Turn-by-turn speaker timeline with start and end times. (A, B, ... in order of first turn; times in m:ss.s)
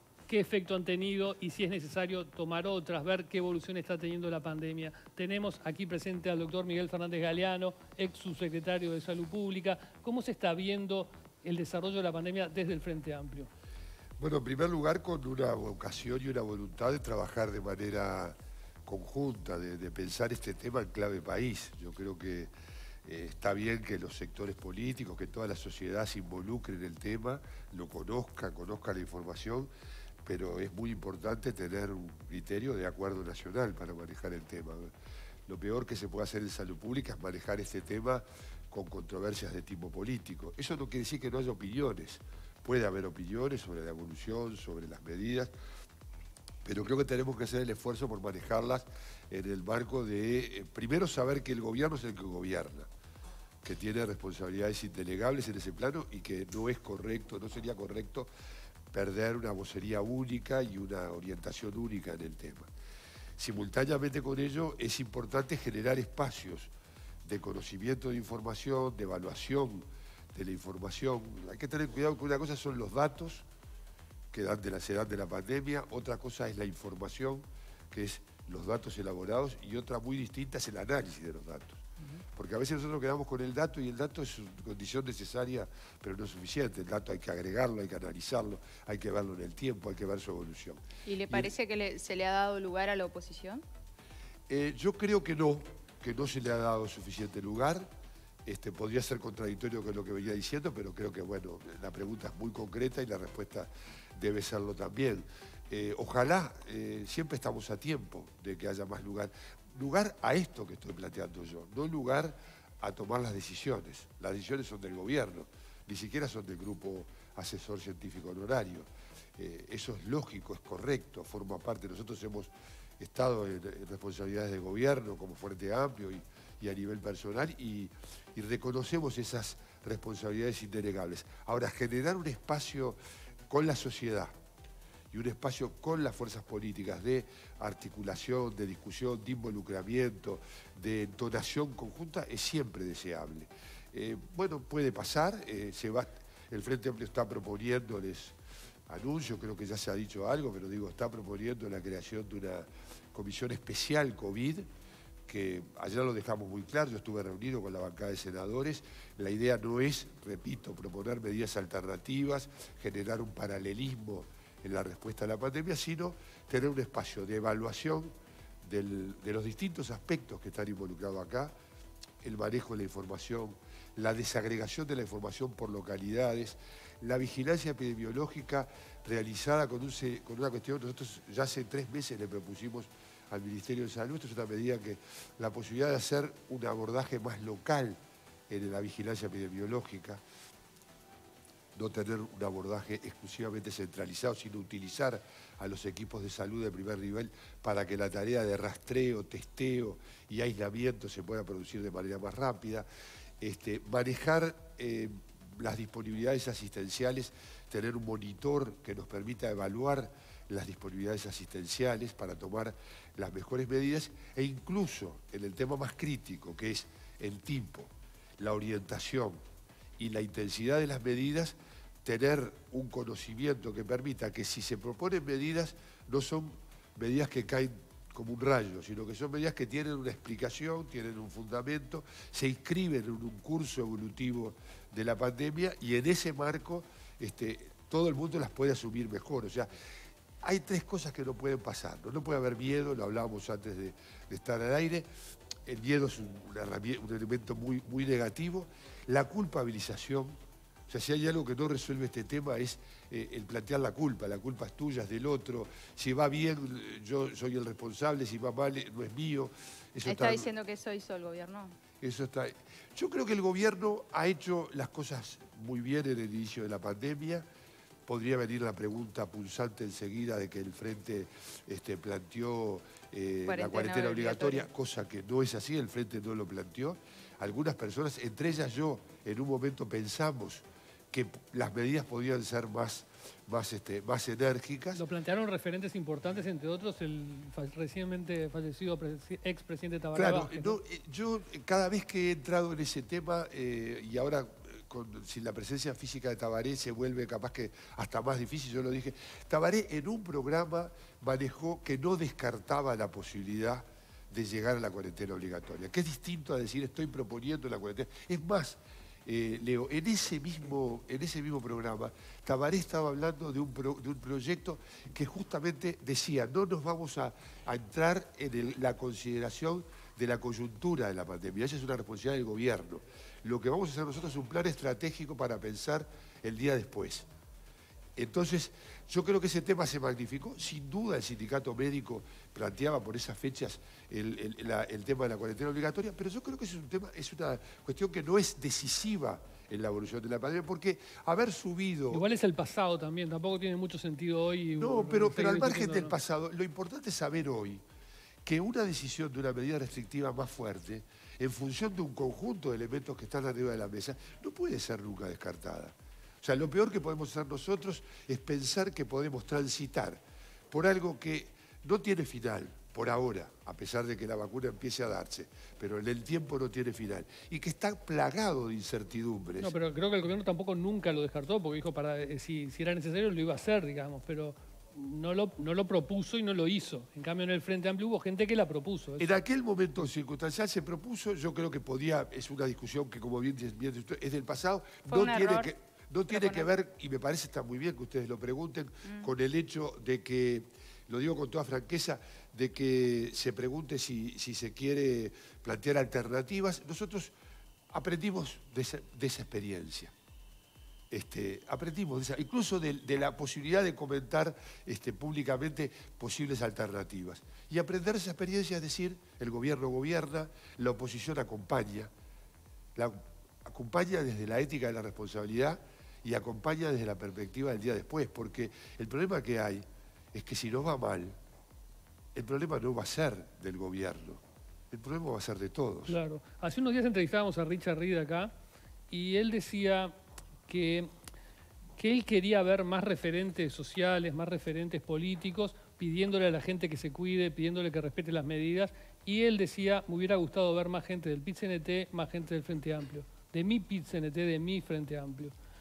0:00.3-0:13.5 A
0:14.2-0:22.5 B
0:23.0-0:29.7 B
0:30.2-0:34.9 B
0:35.5-0:45.5 B
0:46.6-0:52.9 B
0:53.6-0:58.3 B
0:58.9-1:02.7 B
1:03.4-1:06.7 B
1:07.2-1:13.4 B
1:14.3-1:21.8 B
1:22.3-1:31.5 B
1:31.0-1:33.6 C
1:34.5-1:37.9 B
1:38.4-2:14.3 B
2:15.1-2:28.4 B
2:28.9-2:34.7 B
2:35.3-2:51.5 B
2:52.2-3:08.0 B
3:08.5-3:10.2 B
3:11.8-3:22.8 B
3:23.4-3:39.4 B
3:40.0-3:59.7 B
4:00.4-4:05.1 B
4:05.6-4:10.4 B
4:10.9-4:20.5 B
4:20.0-4:21.8 C
4:22.0-4:27.4 B
4:28.1-4:45.0 B
4:33.5-4:34.6 C
4:44.9-4:50.8 A
4:50.1-5:27.3 B
5:28.2-5:42.2 B
5:42.1-5:46.1 A
5:44.8-5:47.8 B
5:48.4-6:09.7 B
6:09.6-6:19.3 A
6:19.2-6:37.3 B
6:25.1-6:25.7 C
6:26.3-6:26.7 C
6:37.9-6:40.1 B
6:41.1-6:52.1 B
6:53.0-7:01.4 B
7:02.3-7:06.1 B
7:06.1-7:08.5 A
7:09.1-7:10.1 A
7:10.7-7:11.1 A
7:12.0-7:25.5 A